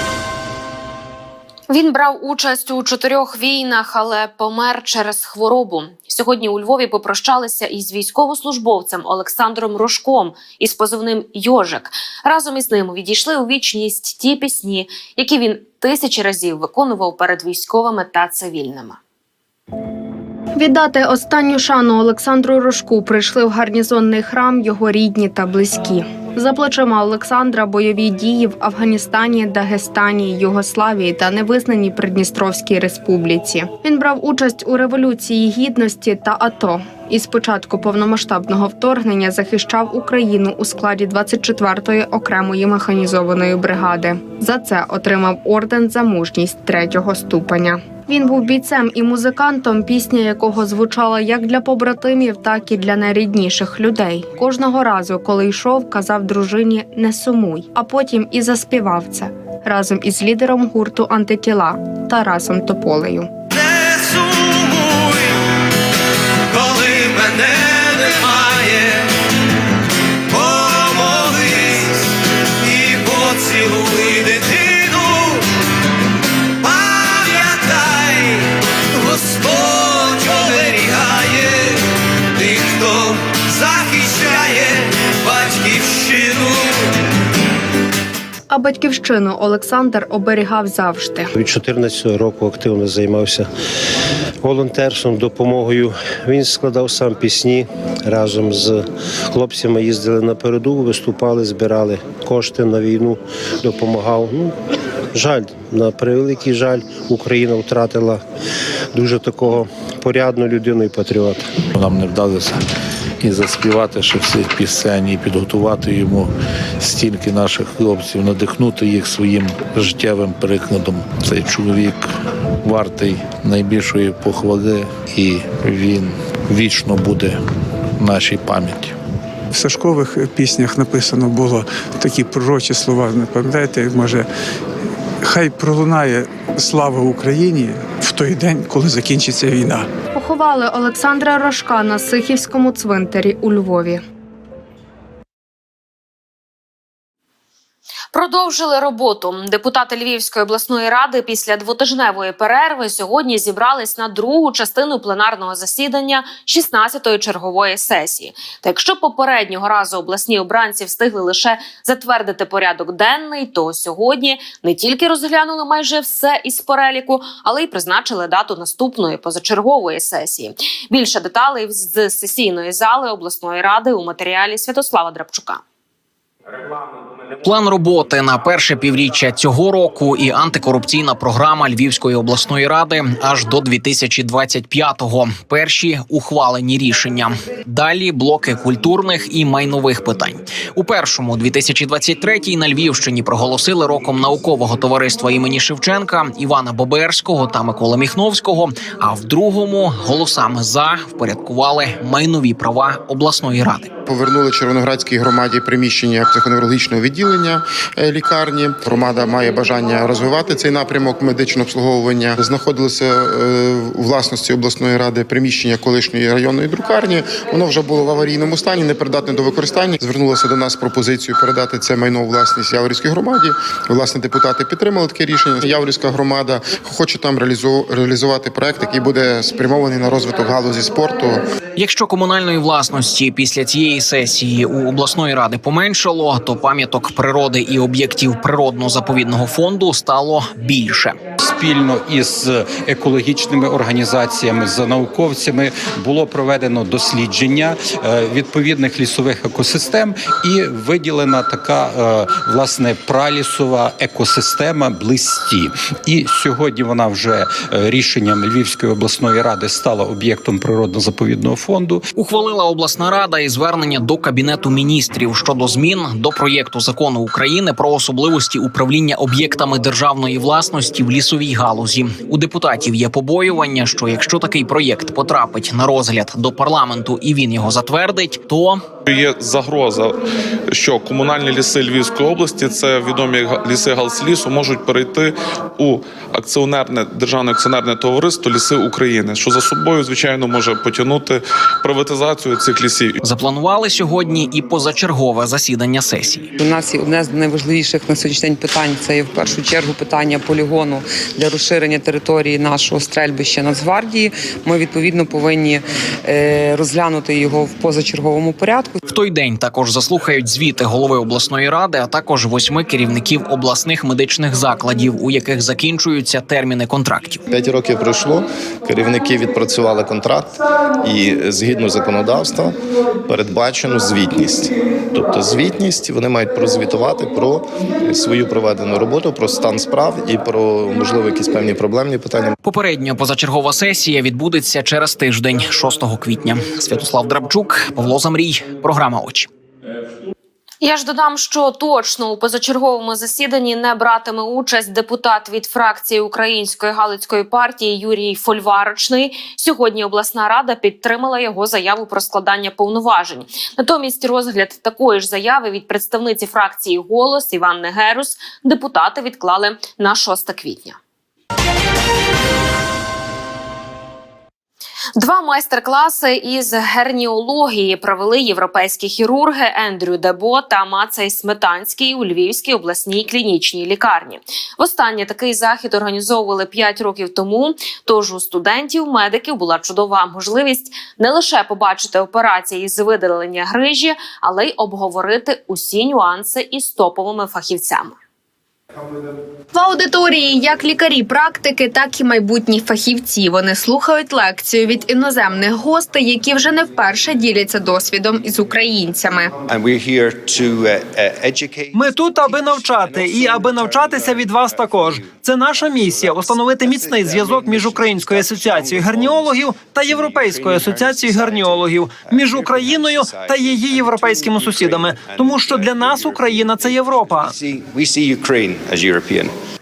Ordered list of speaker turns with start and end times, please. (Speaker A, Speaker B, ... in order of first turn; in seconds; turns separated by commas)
Speaker A: 1.7-19.0, Speaker B: 20.6-63.3, Speaker B: 88.5-91.3, Speaker C: 91.4-93.4, Speaker C: 94.5-97.6, Speaker C: 98.1-98.8, Speaker C: 99.4-103.1, Speaker C: 103.7-104.5, Speaker C: 105.2-108.2, Speaker C: 109.0-111.4, Speaker D: 111.7-112.6, Speaker D: 113.2-122.1, Speaker D: 122.6-127.4, Speaker D: 128.0-129.0, Speaker E: 129.5-134.3, Speaker E: 135.2-139.9, Speaker B: 140.1-144.0, Speaker A: 148.1-175.6, Speaker F: 177.4-203.9, Speaker G: 204.1-231.4, Speaker F: 231.8-241.2, Speaker H: 241.4-262.1, Speaker F: 262.1-278.9, Speaker I: 279.1-280.2, Speaker I: 280.7-293.2, Speaker F: 293.2-296.5, Speaker J: 296.6-309.0, Speaker F: 309.1-317.4, Speaker K: 317.5-332.5, Speaker F: 332.6-339.5, Speaker A: 340.8-361.0, Speaker A: 365.2-388.1, Speaker B: 389.7-399.5, Speaker K: 399.7-401.9, Speaker L: 401.9-417.5, Speaker K: 403.3-403.7, Speaker K: 413.2-413.5, Speaker K: 415.1-416.1, Speaker K: 417.4-419.5